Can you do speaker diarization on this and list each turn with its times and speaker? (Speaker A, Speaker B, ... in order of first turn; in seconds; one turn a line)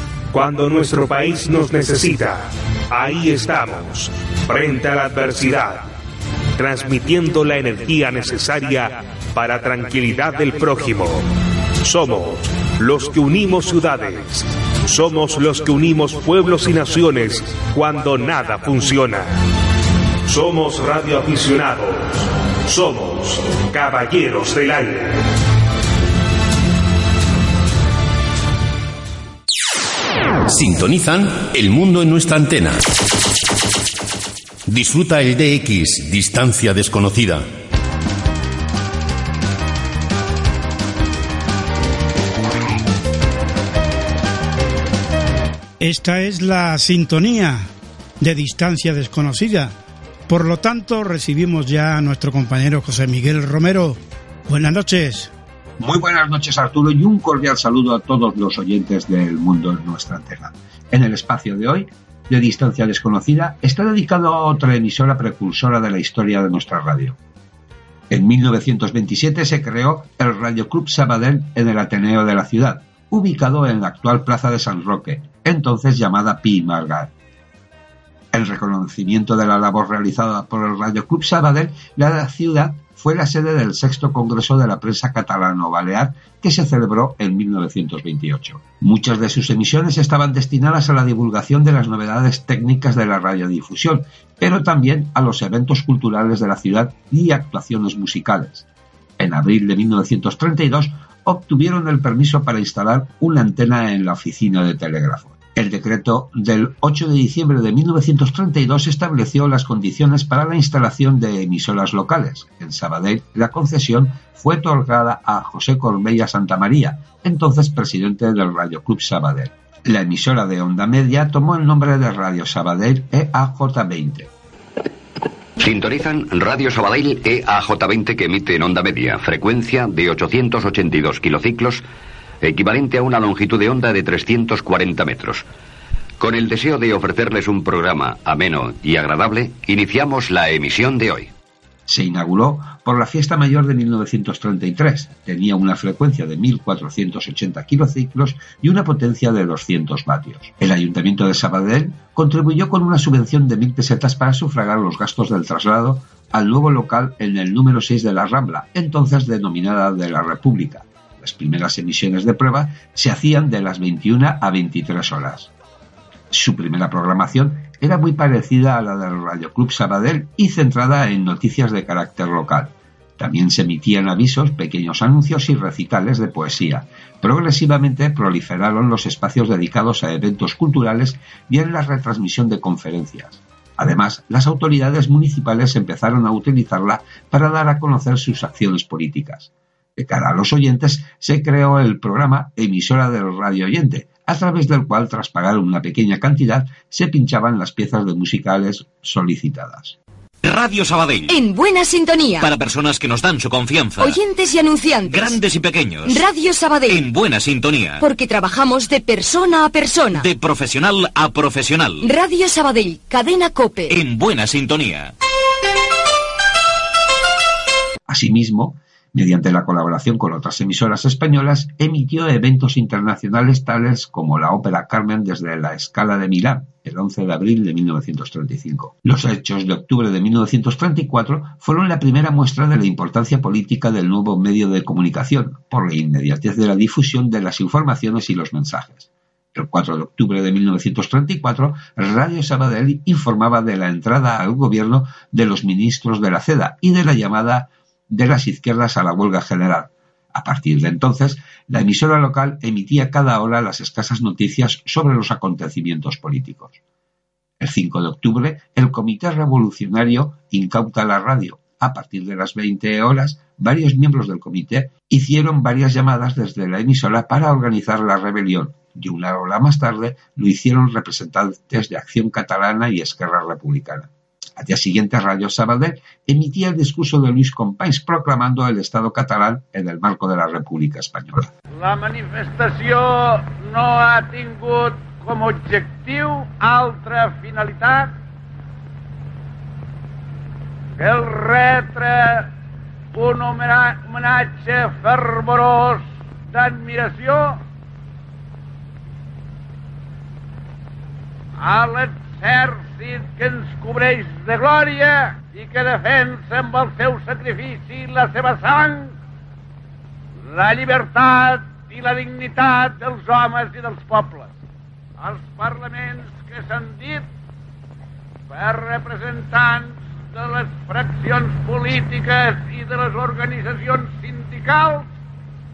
Speaker A: 0.3-5.9
Speaker A: 6.5-11.3
Speaker A: 11.8-19.3
Speaker A: 20.2-25.2
Speaker B: 30.5-32.8
Speaker B: 34.7-37.4
Speaker C: 45.8-47.7
Speaker C: 48.2-49.7
Speaker C: 50.3-55.3
Speaker D: 55.8-67.2
Speaker D: 68.1-77.1
Speaker D: 78.3-98.7
Speaker D: 99.2-124.3
Speaker E: 125.6-131.8
Speaker E: 132.4-135.4
Speaker E: 136.2-141.3
Speaker D: 141.9-165.5
Speaker D: 166.3-200.0
Speaker F: 200.4-201.3
Speaker G: 201.3-202.5
Speaker F: 202.4-204.2
Speaker G: 204.0-205.4
Speaker F: 205.0-206.3
Speaker G: 206.1-207.0
Speaker F: 206.8-208.0
Speaker G: 208.0-210.2
Speaker F: 210.1-212.1
Speaker G: 212.0-213.9
Speaker F: 213.9-215.1
Speaker D: 218.1-256.8
Speaker D: 257.6-281.5
Speaker H: 281.8-288.1
Speaker H: 291.0-292.5
Speaker H: 293.1-297.6
Speaker H: 301.6-309.1
Speaker H: 310.5-314.5
Speaker H: 315.2-317.3
Speaker H: 318.5-325.1